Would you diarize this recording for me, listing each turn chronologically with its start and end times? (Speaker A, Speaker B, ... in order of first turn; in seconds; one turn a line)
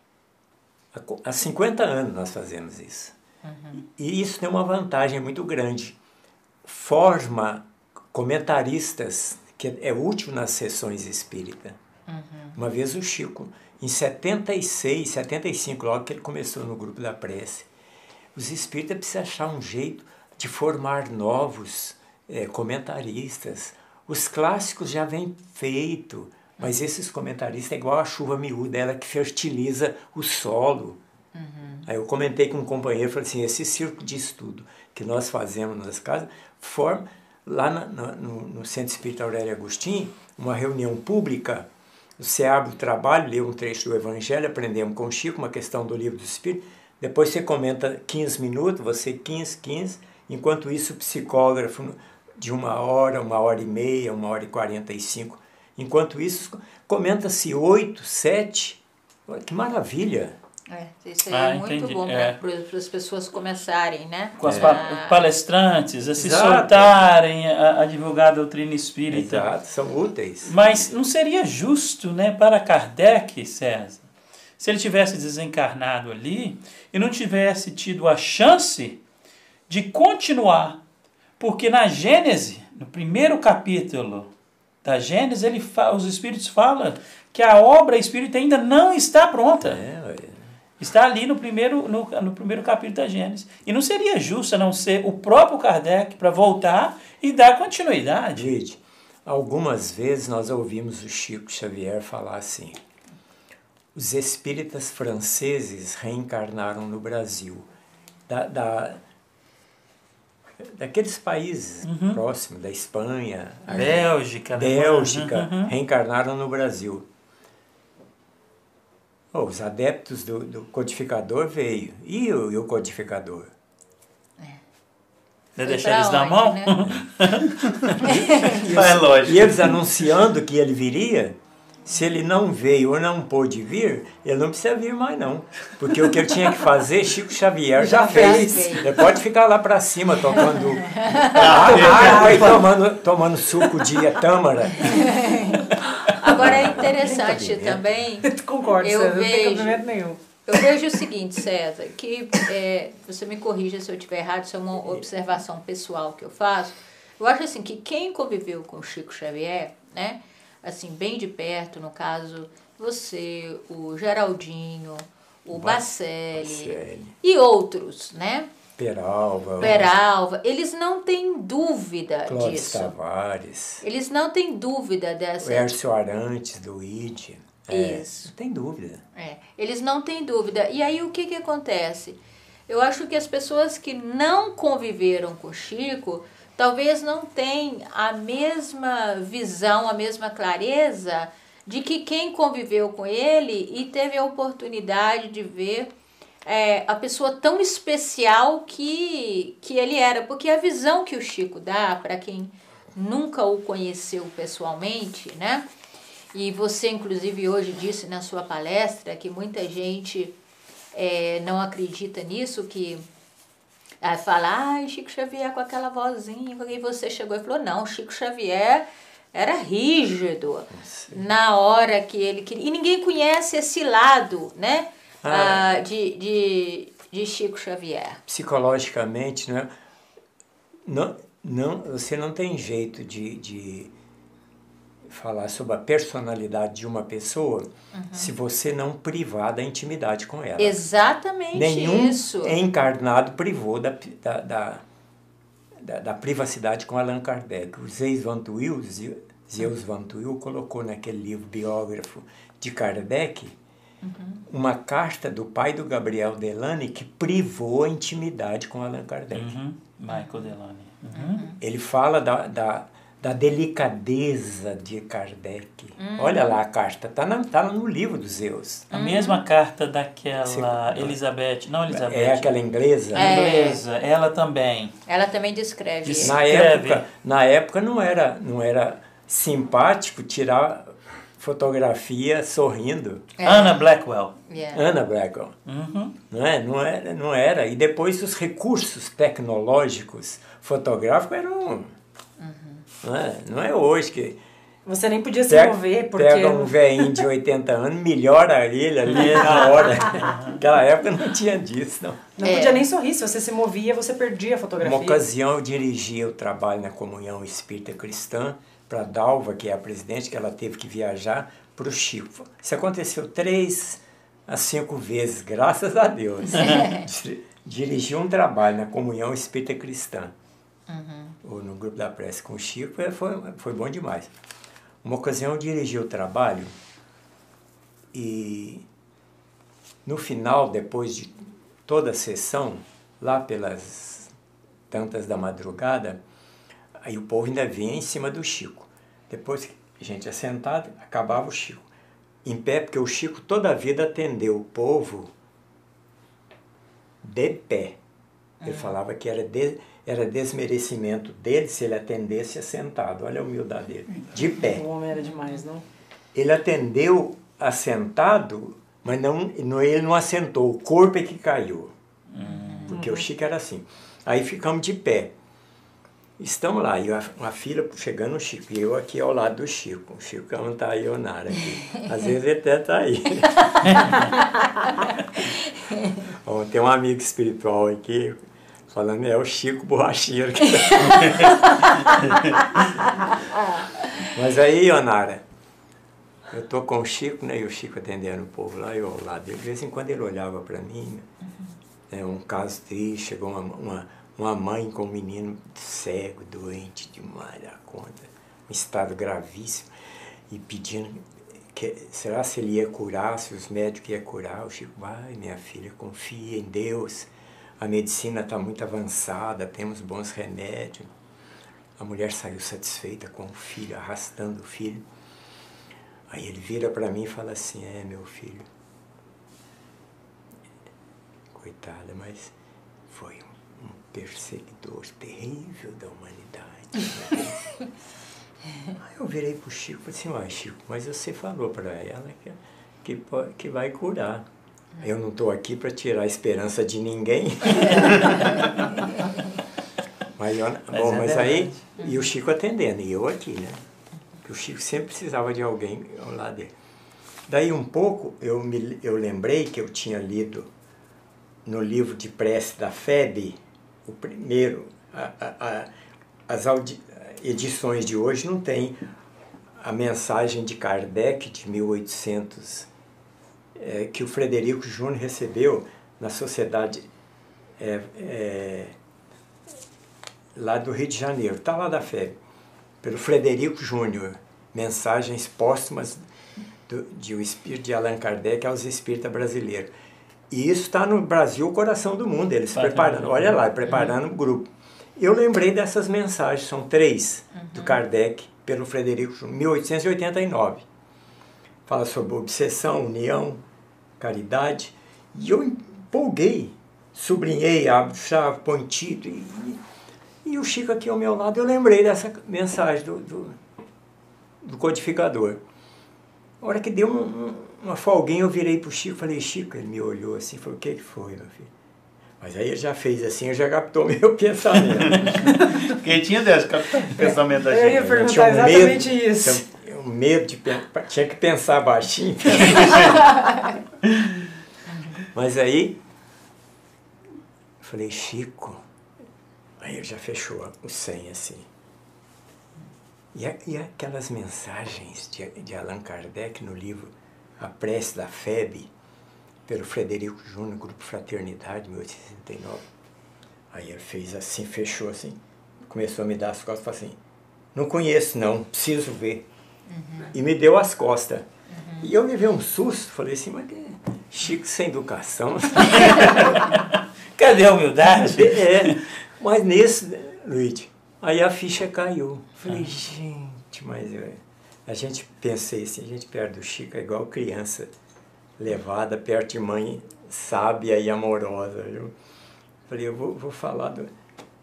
Speaker A: 0.9-3.1
Speaker B: 3.4-3.8
Speaker A: 3.8-6.0
Speaker A: 6.6-11.8
Speaker B: 12.1-12.6
Speaker A: 12.5-17.7
Speaker A: 18.3-31.0
Speaker B: 31.3-31.9
Speaker A: 31.8-41.7
Speaker A: 42.2-60.4
Speaker B: 60.7-65.2
Speaker C: 61.3-62.4
Speaker C: 64.4-69.5
Speaker A: 64.4-64.8
Speaker A: 66.2-66.9
Speaker A: 69.1-70.5
Speaker C: 70.5-79.0
Speaker C: 79.7-80.8
Speaker C: 81.4-84.3
Speaker C: 84.8-89.8
Speaker A: 89.6-90.5
Speaker C: 90.8-98.5
Speaker A: 98.3-102.8
Speaker A: 103.9-107.7
Speaker A: 108.3-109.0
Speaker A: 110.6-117.0
Speaker C: 111.8-112.2
Speaker B: 113.7-113.9
Speaker C: 113.7-115.7
Speaker A: 119.3-123.5
Speaker C: 125.5-128.0
Speaker B: 125.6-126.9
Speaker B: 128.0-128.6
Speaker D: 128.5-129.7
Speaker A: 128.7-145.2
Speaker B: 137.8-138.9
Speaker E: 137.8-138.7
Speaker B: 140.4-142.1
Speaker D: 141.2-142.6
Speaker B: 144.8-149.8
Speaker A: 146.2-148.0
Speaker E: 148.2-150.2
Speaker B: 150.4-168.5
Speaker A: 165.5-167.1
Speaker A: 168.8-169.9
Speaker B: 169.6-172.9
Speaker A: 172.3-173.8
Speaker B: 173.8-175.7
Speaker A: 175.4-179.0
Speaker B: 177.7-178.3
Speaker B: 179.2-195.9
Speaker B: 196.4-205.6
Speaker B: 206.3-210.3
Speaker B: 210.9-213.0
Speaker B: 214.0-228.2
Speaker A: 220.7-221.2
Speaker A: 225.2-225.8
Speaker A: 228.3-229.7
Speaker A: 230.8-233.9
Speaker A: 235.1-240.8
Speaker B: 237.9-238.3
Speaker B: 240.6-242.6
Speaker A: 241.5-244.8
Speaker A: 245.8-253.6
Speaker B: 254.0-254.4
Speaker A: 254.5-259.6
Speaker C: 259.3-261.4
Speaker B: 260.1-260.5
Speaker B: 261.1-261.6
Speaker A: 261.6-268.9
Speaker B: 266.0-266.6
Speaker C: 268.9-272.5
Speaker B: 268.9-269.4
Speaker A: 270.4-271.2
Speaker A: 271.9-273.3
Speaker C: 273.1-274.9
Speaker B: 273.1-273.8
Speaker B: 275.1-276.4
Speaker C: 276.0-277.0
Speaker A: 276.2-283.2
Speaker B: 283.4-283.8
Speaker C: 283.4-284.3
Speaker B: 284.5-284.8
Speaker A: 284.7-285.5
Speaker C: 285.6-286.1
Speaker A: 286.3-291.9
Speaker B: 292.4-292.8
Speaker A: 293.0-294.4
Speaker E: 294.9-296.8
Speaker A: 295.5-302.2
Speaker C: 299.1-300.6
Speaker E: 302.4-305.2
Speaker B: 302.4-302.9
Speaker A: 304.8-320.3
Speaker B: 320.9-321.4
Speaker A: 321.4-324.3
Speaker A: 325.0-326.8
Speaker A: 328.1-328.9
Speaker A: 330.0-334.3
Speaker A: 334.9-336.2
Speaker A: 337.0-341.9
Speaker A: 342.4-345.3
Speaker A: 347.2-348.0
Speaker B: 348.6-348.9
Speaker A: 348.6-354.8
Speaker E: 354.5-355.8
Speaker B: 355.2-355.6
Speaker A: 356.3-361.9
Speaker C: 362.3-362.9
Speaker B: 362.4-362.9
Speaker A: 362.8-365.3
Speaker E: 362.9-363.2
Speaker A: 366.4-374.1
Speaker B: 374.0-374.6
Speaker A: 376.2-381.7
Speaker B: 380.9-382.1
Speaker A: 384.2-385.4
Speaker A: 386.5-391.3
Speaker A: 392.1-399.9
Speaker A: 400.5-411.1
Speaker A: 412.0-415.1
Speaker A: 416.3-418.7
Speaker A: 421.5-422.5
Speaker A: 423.1-427.8
Speaker A: 429.0-434.5
Speaker A: 435.0-438.7
Speaker A: 440.3-443.8
Speaker C: 440.9-441.8
Speaker A: 444.4-446.7
Speaker A: 447.5-450.7
Speaker A: 451.6-455.9
Speaker A: 456.5-459.0
Speaker A: 459.8-462.9
Speaker A: 463.7-467.1
Speaker A: 467.8-468.9
Speaker A: 470.5-472.4
Speaker A: 473.0-476.2
Speaker A: 476.9-479.9
Speaker A: 480.5-490.9
Speaker C: 482.7-483.6
Speaker B: 487.5-488.0
Speaker A: 491.9-493.6
Speaker A: 494.2-499.8
Speaker A: 500.4-503.6
Speaker A: 504.6-505.6
Speaker A: 506.6-511.7
Speaker A: 512.4-515.6
Speaker D: 515.2-518.6
Speaker E: 517.7-519.6
Speaker A: 518.2-523.2
Speaker A: 525.2-526.0
Speaker A: 527.8-528.8
Speaker A: 529.8-531.7
Speaker A: 533.3-538.9
Speaker A: 539.6-542.9
Speaker A: 543.7-547.2
Speaker A: 547.7-549.5
Speaker B: 549.9-550.3
Speaker A: 550.3-551.5
Speaker B: 551.7-552.0
Speaker A: 552.0-556.5
Speaker C: 556.0-556.8
Speaker C: 557.4-559.0
Speaker A: 558.1-567.9
Speaker C: 562.7-562.9
Speaker A: 568.6-572.1
Speaker A: 572.9-574.1